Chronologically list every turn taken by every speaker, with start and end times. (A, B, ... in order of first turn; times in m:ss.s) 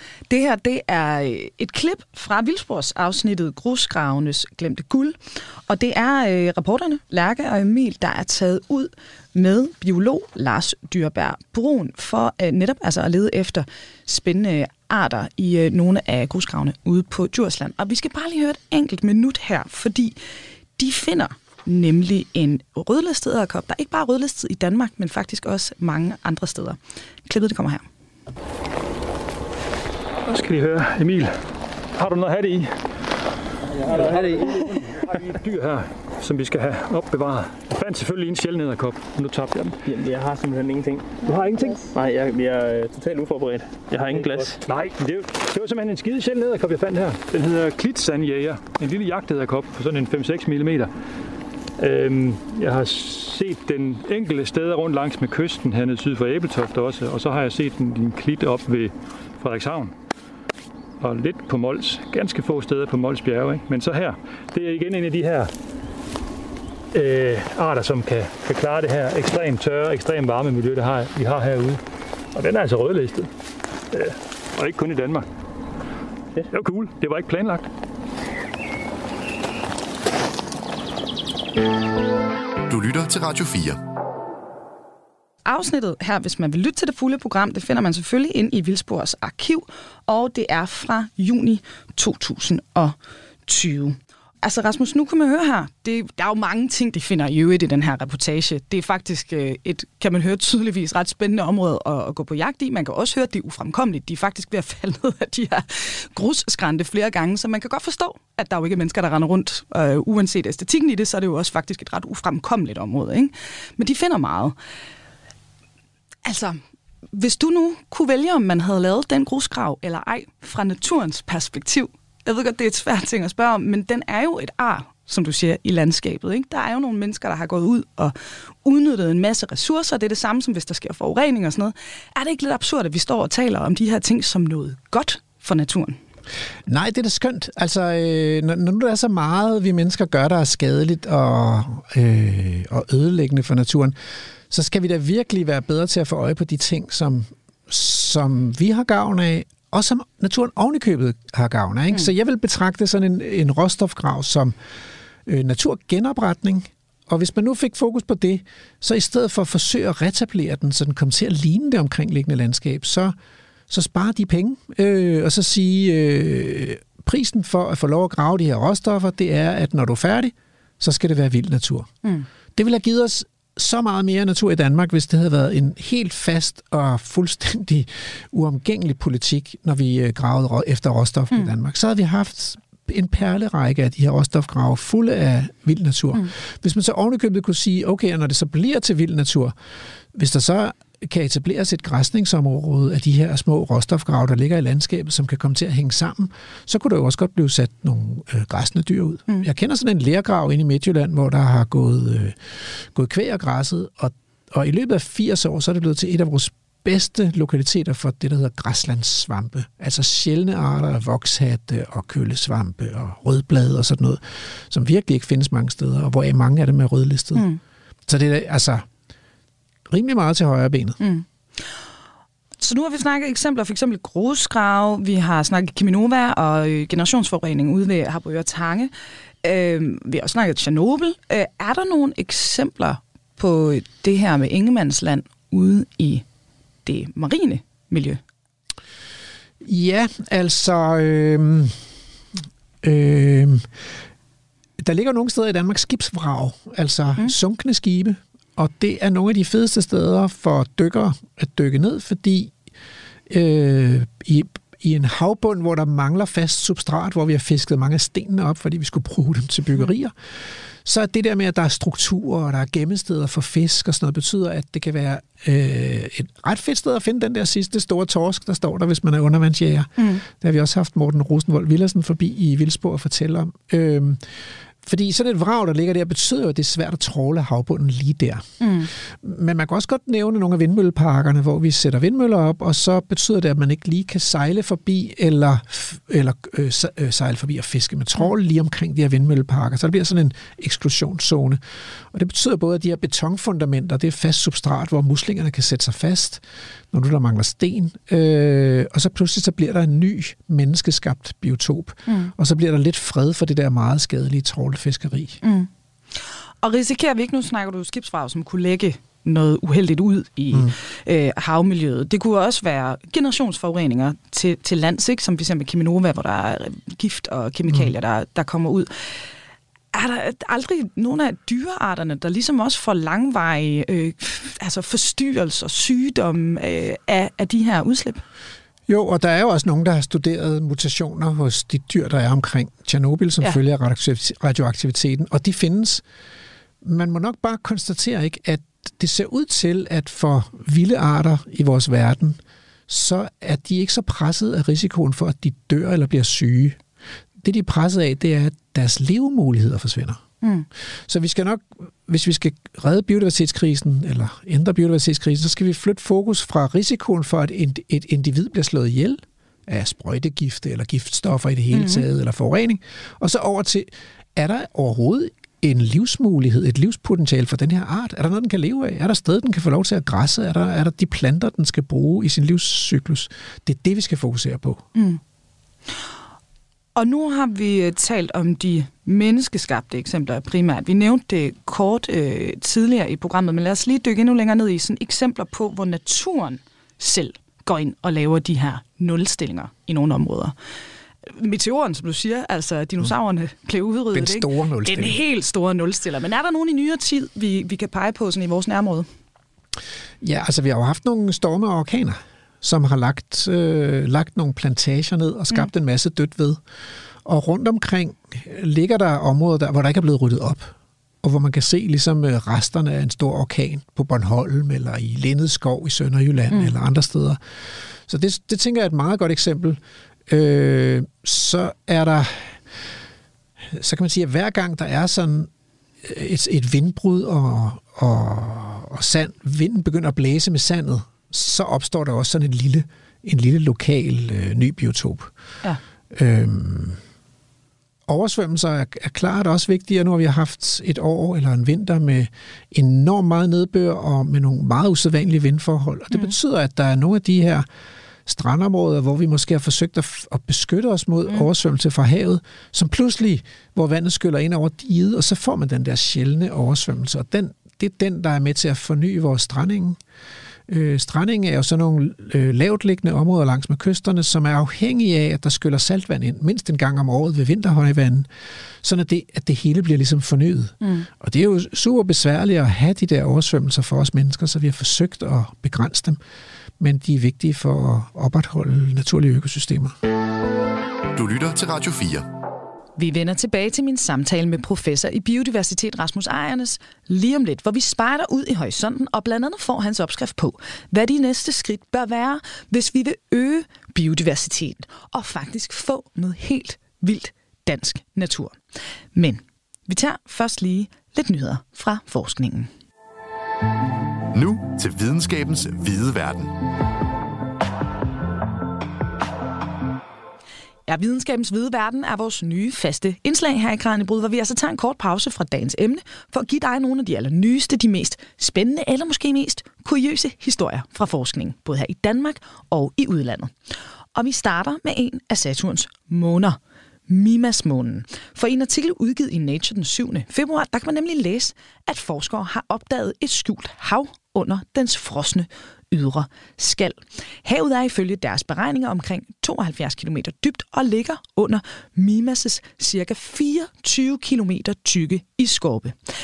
0:00.3-0:20.2 A
0:20.8-0:27.9 A
0:30.2-0:31.4 B
0:31.9-0:32.8 B
0:33.8-0:34.9 C
0:33.9-0:34.2 B
0:35.0-0:39.8 B
0:39.8-0:44.6 C
0:41.2-0:41.9 B
0:44.0-0:50.9 B
0:51.8-0:59.9 B
1:01.0-1:05.5 B
1:06.9-1:11.8 B
1:12.4-1:13.3 B
1:13.9-1:15.2 B
1:16.4-1:17.7 B
1:22.7-1:23.8 D
1:25.4-1:32.9 A
1:33.4-1:54.6 A
1:56.2-1:56.6 A
1:57.1-2:16.0 A
2:16.6-2:23.9 E
2:24.5-2:34.6 E
2:35.2-2:43.1 E
2:43.7-2:51.9 E
2:52.6-3:09.6 E
3:10.1-3:37.5 E
3:38.1-3:38.9 E
3:39.9-3:41.0 E
3:41.0-3:41.2 A
3:42.6-3:48.9 A
3:49.4-3:56.2 A
3:56.8-3:58.2 A
3:59.6-4:01.8 E
4:02.8-4:03.7 E
4:04.8-4:12.5 E
4:13.3-4:20.1 E
4:20.8-4:34.2 E
4:34.8-4:51.6 E
4:38.6-4:38.9 A
4:52.1-5:05.4 E
5:05.4-5:05.7 A
5:06.6-5:19.1 A
5:19.9-5:28.2 A
5:28.9-5:36.0 E
5:36.8-5:46.8 E
5:47.4-5:50.2 E
5:50.4-5:50.7 A
5:51.1-6:14.8 E
6:01.7-6:02.0 A
6:14.9-6:15.2 A
6:16.9-6:30.5 A
6:31.2-6:39.1 A
6:34.1-6:35.2 E
6:40.2-6:46.6 E
6:47.2-6:57.4 E
6:58.1-7:02.6 E
7:03.7-7:05.5 E
7:06.0-7:15.3 E
7:16.1-7:17.0 E
7:18.1-7:27.6 E
7:28.3-7:40.0 E
7:40.7-7:48.3 E
7:48.8-7:56.2 E
7:50.8-7:51.1 A
7:56.8-8:00.0 E
8:01.1-8:02.3 D
8:03.0-8:18.6 A
8:19.1-8:22.7 A
8:24.3-8:26.6 D
8:30.9-8:43.5 A
8:44.1-9:06.0 A